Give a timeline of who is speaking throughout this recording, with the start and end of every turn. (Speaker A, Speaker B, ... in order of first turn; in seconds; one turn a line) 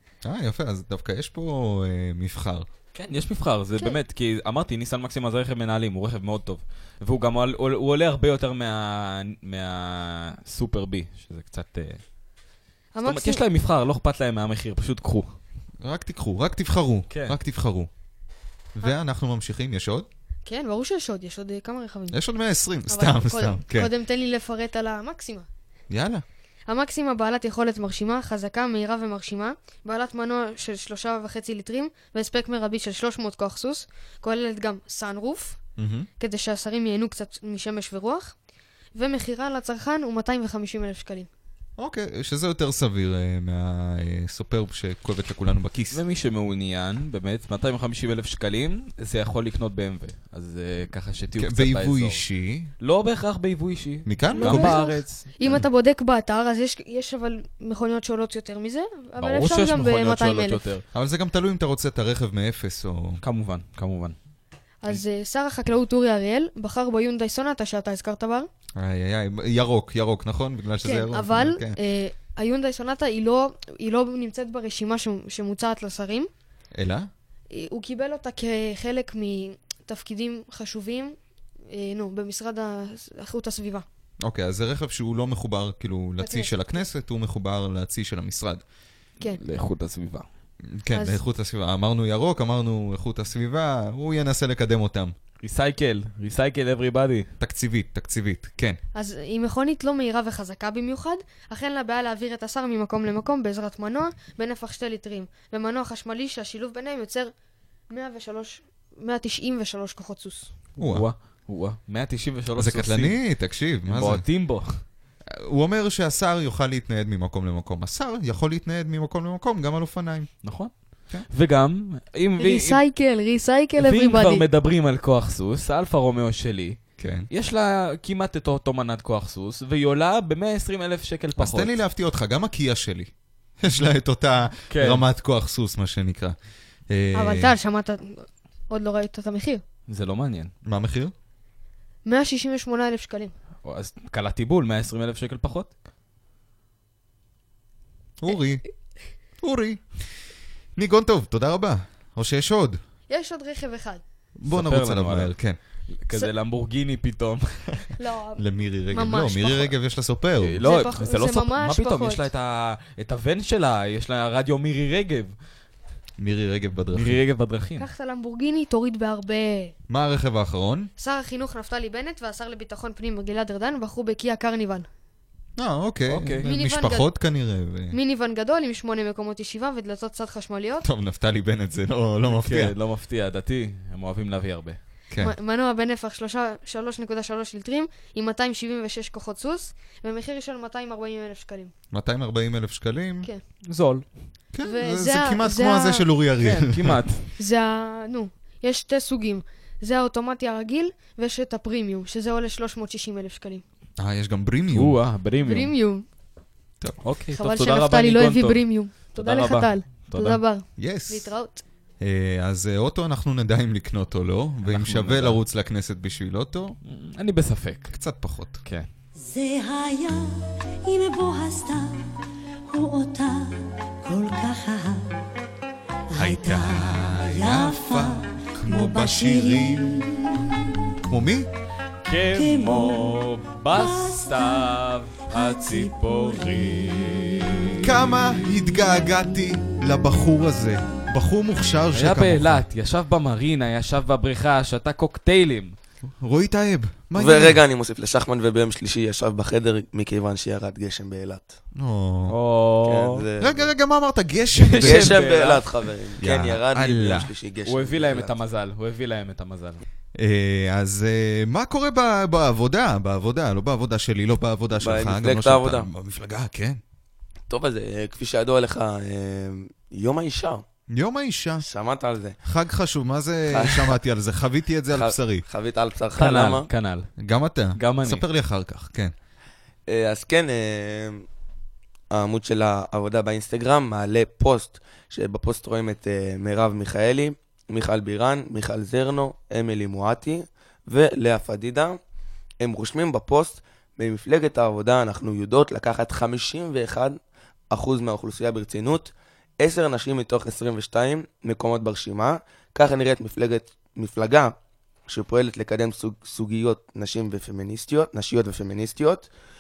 Speaker A: 0.2-2.7
Speaker B: 3.0-12.0
Speaker C: 12.9-13.4
Speaker B: 13.0-15.4
Speaker A: 15.8-17.9
Speaker B: 17.1-17.4
Speaker A: 18.7-20.1
Speaker C: 20.5-22.2
Speaker A: 22.1-23.9
Speaker C: 22.9-25.5
Speaker A: 25.9-26.2
Speaker C: 26.7-35.6
Speaker A: 35.8-36.1
Speaker C: 36.2-38.3
Speaker C: 39.0-41.3
Speaker A: 41.8-46.0
Speaker B: 45.9-52.2
Speaker A: 51.4-52.7
Speaker B: 52.8-55.3
Speaker A: 54.1-54.8
Speaker C: 54.3-60.6
Speaker B: 59.2-60.8
Speaker A: 60.9-63.2
Speaker B: 63.2-64.2
Speaker C: 64.8-68.5
Speaker A: 68.8-71.8
Speaker C: 70.8-76.3
Speaker A: 76.8-77.1
Speaker C: 77.5-81.2
Speaker C: 81.7-83.8
Speaker A: 84.2-88.6
Speaker C: 86.2-86.8
Speaker B: 89.2-90.3
Speaker A: 90.7-95.1
Speaker C: 90.9-91.2
Speaker B: 95.4-97.3
Speaker A: 97.4-98.8
Speaker C: 99.0-107.3
Speaker C: 107.9-110.5
Speaker B: 110.8-113.2
Speaker A: 110.8-111.1
Speaker A: 112.6-114.2
Speaker B: 113.9-114.8
Speaker A: 115.3-120.3
Speaker B: 120.4-120.7
Speaker B: 121.3-122.8
Speaker C: 122.4-124.5
Speaker B: 123.8-126.8
Speaker A: 127.0-127.3
Speaker B: 127.3-131.8
Speaker A: 131.4-133.1
Speaker A: 133.6-136.3
Speaker B: 134.7-135.1
Speaker A: 136.9-137.5
Speaker C: 137.1-139.6
Speaker B: 139.9-140.5
Speaker A: 140.7-141.1
Speaker C: 142.1-143.3
Speaker B: 143.6-145.7
Speaker A: 148.2-148.6
Speaker A: 149.4-149.8
Speaker A: 150.8-152.8
Speaker C: 153.1-154.0
Speaker A: 154.4-155.6
Speaker B: 154.5-155.3
Speaker B: 155.9-157.7
Speaker C: 158.0-159.7
Speaker A: 158.4-160.6
Speaker B: 160.4-165.3
Speaker C: 160.6-162.3
Speaker A: 166.2-167.2
Speaker B: 166.9-167.9
Speaker C: 167.8-169.7
Speaker A: 169.9-170.9
Speaker C: 171.0-174.9
Speaker A: 175.6-178.0
Speaker B: 176.1-176.5
Speaker C: 176.4-177.1
Speaker C: 177.9-180.9
Speaker A: 180.8-182.7
Speaker B: 182.2-184.8
Speaker C: 185.2-191.7
Speaker A: 191.9-193.3
Speaker B: 193.7-194.1
Speaker A: 194.5-197.0
Speaker C: 194.6-196.1
Speaker B: 196.4-197.3
Speaker C: 197.4-203.6
Speaker A: 204.0-205.0
Speaker B: 204.7-205.7
Speaker C: 205.4-206.1
Speaker B: 207.0-208.6
Speaker C: 207.4-211.6
Speaker B: 209.2-210.4
Speaker A: 210.8-211.3
Speaker A: 212.0-216.8
Speaker B: 214.7-215.4
Speaker B: 216.8-217.9
Speaker A: 217.9-218.6
Speaker B: 218.6-218.9
Speaker D: 219.2-225.2
Speaker D: 226.1-231.0
Speaker A: 226.2-230.2
Speaker A: 231.1-231.5
Speaker B: 232.1-238.1
Speaker D: 232.3-237.9
Speaker A: 237.8-242.6
Speaker B: 241.9-245.7
Speaker A: 246.2-247.6
Speaker E: 247.2-251.6
Speaker A: 251.8-252.4
Speaker B: 252.3-253.2
Speaker E: 252.8-253.7
Speaker A: 253.4-255.2
Speaker B: 254.6-255.7
Speaker E: 254.8-258.3
Speaker A: 256.2-257.3
Speaker B: 257.6-259.8
Speaker A: 260.2-266.8
Speaker E: 264.8-265.9
Speaker E: 267.5-270.6
Speaker A: 270.9-271.7
Speaker E: 271.6-272.4
Speaker A: 272.4-275.5
Speaker E: 273.5-273.9
Speaker E: 274.9-276.7
Speaker B: 276.2-277.1
Speaker A: 277.2-279.1
Speaker B: 277.8-278.2
Speaker E: 279.9-281.3
Speaker E: 282.1-292.0
Speaker E: 292.6-297.2
Speaker E: 297.7-304.6
Speaker E: 305.1-309.3